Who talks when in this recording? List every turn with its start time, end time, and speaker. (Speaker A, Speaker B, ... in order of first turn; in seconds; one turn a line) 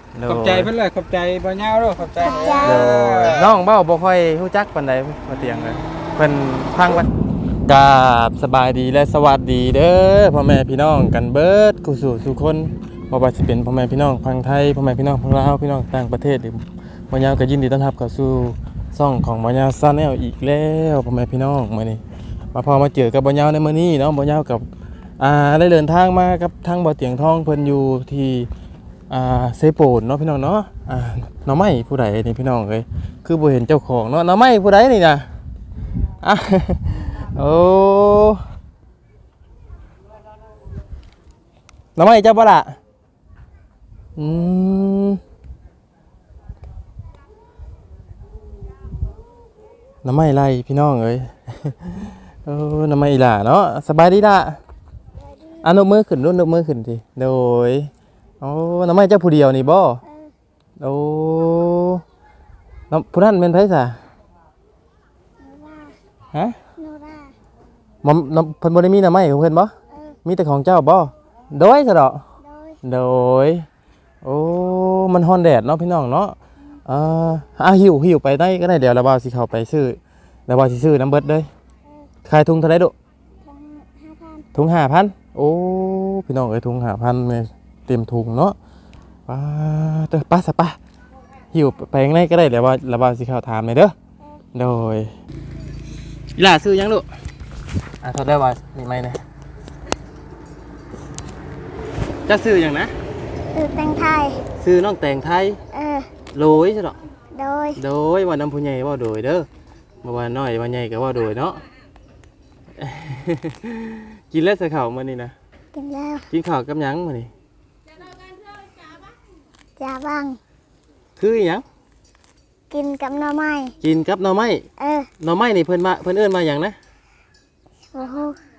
Speaker A: 0.1-0.7
Speaker B: 0.2-3.5
Speaker C: 2.1-2.9
Speaker A: 2.6-7.1
Speaker A: 7.7-22.0
Speaker A: 22.5-28.5
Speaker A: 29.1-35.3
Speaker A: 36.2-38.4
Speaker A: 42.0-42.8
Speaker A: 44.2-45.2
Speaker A: 50.0-54.6
Speaker A: 55.6-60.0
Speaker C: 60.0-60.3
Speaker A: 60.8-62.0
Speaker A: 62.9-64.0
Speaker C: 65.4-66.0
Speaker A: 66.3-66.6
Speaker C: 66.8-67.3
Speaker A: 68.0-72.2
Speaker C: 72.4-72.8
Speaker A: 72.8-73.7
Speaker A: 74.2-81.5
Speaker A: 82.2-82.9
Speaker C: 83.4-84.5
Speaker A: 84.5-88.5
Speaker A: 89.3-90.8
Speaker A: 91.5-93.9
Speaker A: 94.5-95.1
Speaker A: 96.3-97.1
Speaker A: 98.0-99.2
Speaker A: 102.2-102.9
Speaker C: 103.5-104.4
Speaker A: 104.6-105.6
Speaker C: 105.7-106.1
Speaker A: 106.3-107.0
Speaker C: 107.3-107.8
Speaker A: 107.8-109.5
Speaker A: 110.0-111.6
Speaker A: 112.8-115.3
Speaker C: 115.7-116.3
Speaker A: 116.3-117.3
Speaker C: 119.8-120.4
Speaker A: 121.2-121.6
Speaker C: 122.7-123.7
Speaker A: 123.8-124.7
Speaker C: 124.8-125.1
Speaker A: 125.2-126.8
Speaker C: 127.9-128.4